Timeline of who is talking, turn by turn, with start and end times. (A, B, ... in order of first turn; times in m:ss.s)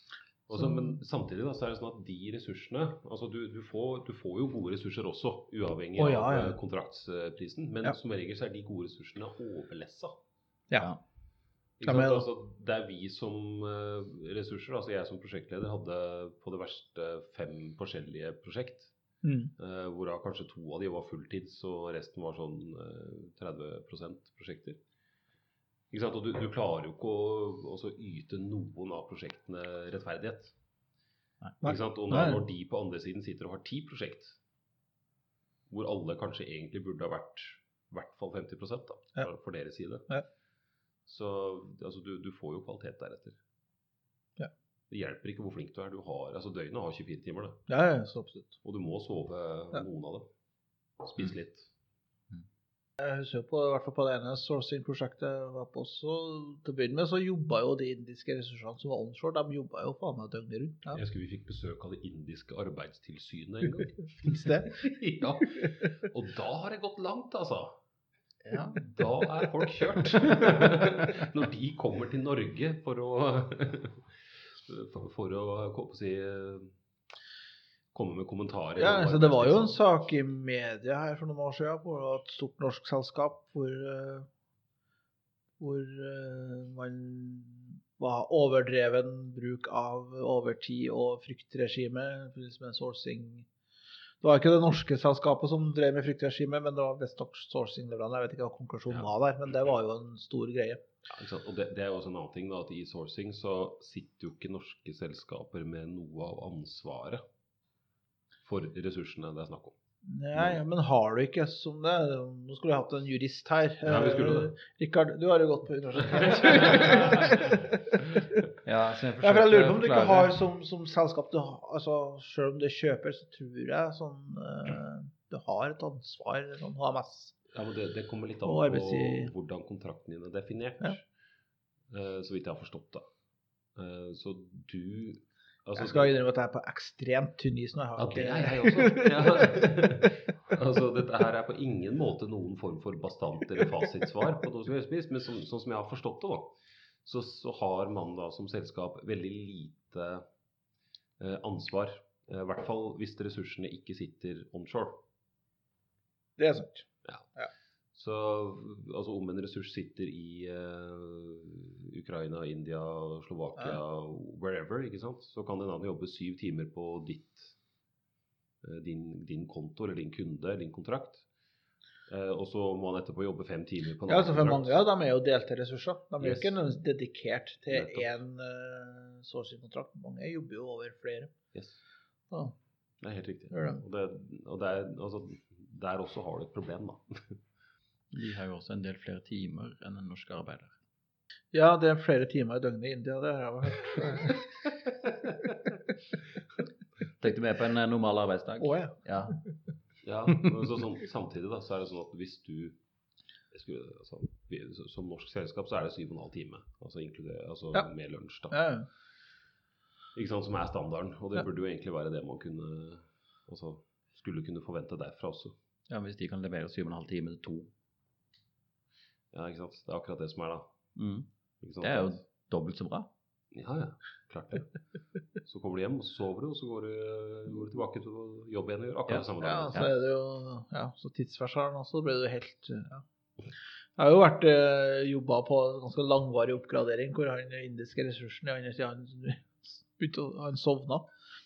0:00.5-0:10.1 A
0:00.6-0:01.0 B
0:06.0-0:06.6 B
0:11.8-0:18.9 A
0:11.8-0:12.3 B
0:19.2-0:19.5 B
0:19.6-0:24.8 A
0:25.9-0:30.5 A
0:31.6-0:32.4 B
0:31.6-0:34.4 A
0:35.7-0:40.1 A
0:41.0-0:43.4 A
0:44.9-0:47.6 A
0:47.7-0:48.5 B
0:48.6-0:50.3 A
0:51.0-0:51.7 A
0:53.0-1:01.0 B
1:00.9-1:07.8 A
1:04.2-1:05.0 B
1:05.5-1:05.9 B
1:08.5-1:08.8 C
1:08.8-1:16.7 A
1:17.9-1:19.8 A
1:18.8-1:24.3 B
1:25.6-1:33.5 B
1:34.2-1:40.8 B
1:41.1-1:47.2 A
1:48.4-1:49.8 A
1:50.0-1:58.4 B
1:50.3-1:50.6 A
1:53.8-1:54.5 A
1:56.3-1:57.6 A
1:58.6-2:00.3 C
1:59.2-2:07.4 B
2:07.5-2:11.0 A
2:08.4-2:09.3 B
2:11.9-2:13.0 A
2:13.8-2:16.1 A
2:15.8-2:20.1 B
2:18.0-2:30.2 A
2:31.2-2:35.0 A
2:36.4-2:37.5 B
2:37.9-2:47.5 A
2:48.6-2:51.2 A
2:52.1-2:54.8 A
2:54.1-3:01.3 B
2:56.2-2:56.6 A
2:57.7-2:58.1 A
3:01.5-3:01.8 A
3:03.0-3:07.4 A
3:03.5-3:03.8 B
3:08.1-3:10.7 C
3:11.5-3:14.6 B
3:15.4-3:15.7 B
3:17.2-3:19.4 C
3:18.6-3:19.0 B
3:20.0-3:22.8 A
3:23.5-3:28.6 A
3:28.5-3:28.9 B
3:30.1-3:35.5 A
3:35.9-3:37.7 C
3:39.3-3:40.6 A
3:41.0-3:41.3 C
3:41.6-3:42.2 A
3:41.8-3:43.1 C
3:43.5-3:44.8 A
3:45.4-3:49.9 A
3:49.1-3:49.9 C
3:49.4-3:53.0 B
3:54.0-4:01.1 B